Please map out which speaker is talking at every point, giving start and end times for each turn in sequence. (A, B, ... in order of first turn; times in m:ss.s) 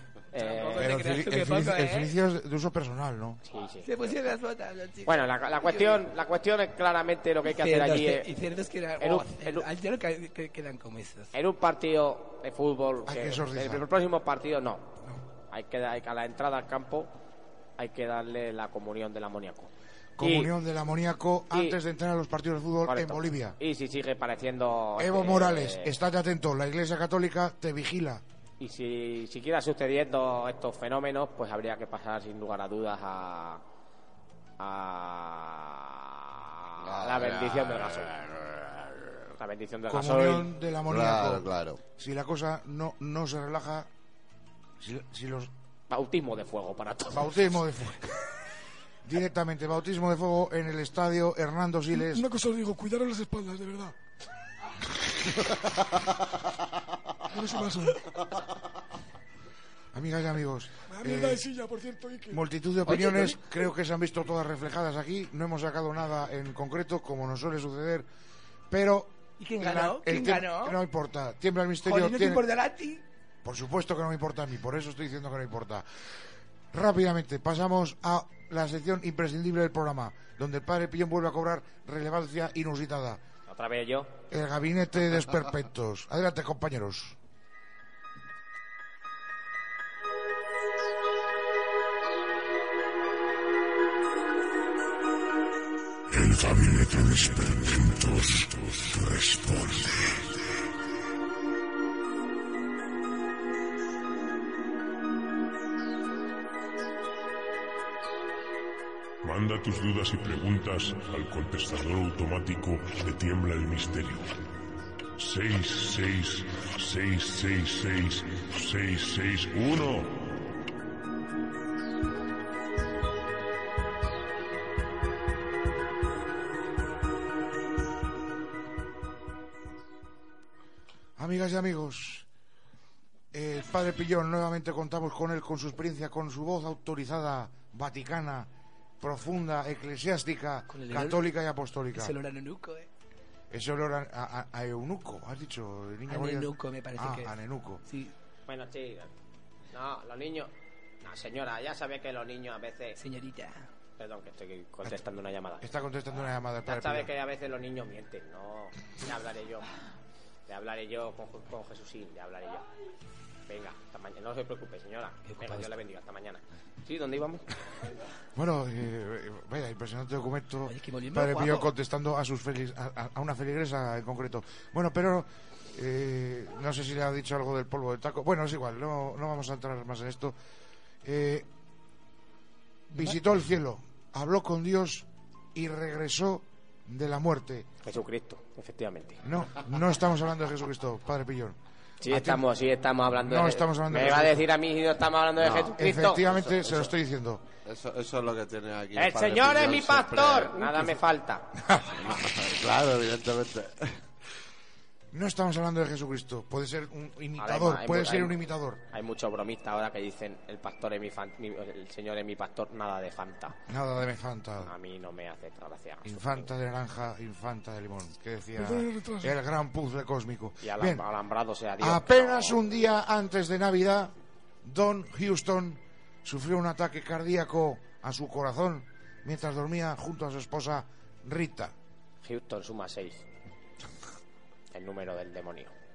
0:00.3-0:01.1 A
0:00.3-0:02.1 B
0:00.8-0:03.4 C
0:03.4-0:03.9 A
0:03.8-0:06.0 B
0:05.0-0:08.3 A
0:07.4-0:11.3 B
0:09.0-0:09.7 A
0:11.3-0:15.0 A
0:13.0-0:13.8 C
0:15.5-0:17.1 A
0:17.8-0:20.5 A
0:20.2-0:23.6 C
0:21.5-0:21.8 A
0:22.8-0:26.0 A
0:25.0-0:28.2 C
0:28.6-0:33.6 A
0:34.6-0:38.2 A
0:36.8-0:39.1 D
0:39.3-0:40.5 A
0:39.9-0:43.9 C
0:40.9-0:41.8 D
0:44.8-0:45.5 C
0:45.9-0:47.4 A
0:47.1-0:48.3 C
0:49.0-0:52.2 C
0:51.9-0:53.9 E
0:57.3-0:58.2 E
0:59.9-1:01.4 C
1:00.9-1:02.4 E
1:02.3-1:08.0 C
1:02.9-1:03.3 B
1:08.7-1:12.5 C
1:09.4-1:10.8 B
1:11.8-1:13.0 B
1:13.4-1:15.8 C
1:16.7-1:23.2 C
1:23.5-1:24.1 A
1:24.3-1:27.2 C
1:36.2-1:36.8 F
1:36.9-1:38.2 C
1:37.6-1:39.6 F
1:49.2-1:54.4 F
1:55.2-2:00.4 F
2:11.2-2:12.2 C
2:13.3-2:18.5 C
2:19.0-2:22.1 C
2:20.7-2:21.2 B
2:21.9-2:22.9 B
2:23.5-2:27.8 C
2:26.1-2:27.3 B
2:27.9-2:28.1 B
2:28.5-2:29.1 A
2:29.7-2:33.0 A
2:33.0-2:33.7 B
2:34.0-2:35.6 A
2:35.6-2:37.1 C
2:36.6-2:39.7 A
2:40.5-2:42.7 A
2:43.5-2:47.6 A
2:45.2-2:45.7 B
2:48.4-3:00.3 C
2:50.7-2:51.7 B
3:01.0-3:01.5 C
3:02.9-3:07.7 C
3:07.8-3:09.2 A
3:09.2-3:12.5 C
3:12.0-3:16.3 A
3:13.2-3:14.4 C
3:15.4-3:16.9 D
3:15.8-3:17.4 C
3:17.6-3:21.0 D
3:18.9-3:21.5 A
3:21.7-3:24.0 D
3:25.1-3:28.8 C
3:27.4-3:33.6 A
3:33.7-3:34.7 C
3:34.6-3:36.5 A
3:36.0-3:41.0 C
3:38.6-3:39.4 E
3:40.6-3:42.7 A
3:41.8-3:51.7 C
3:52.2-3:53.2 A
3:54.7-3:55.7 A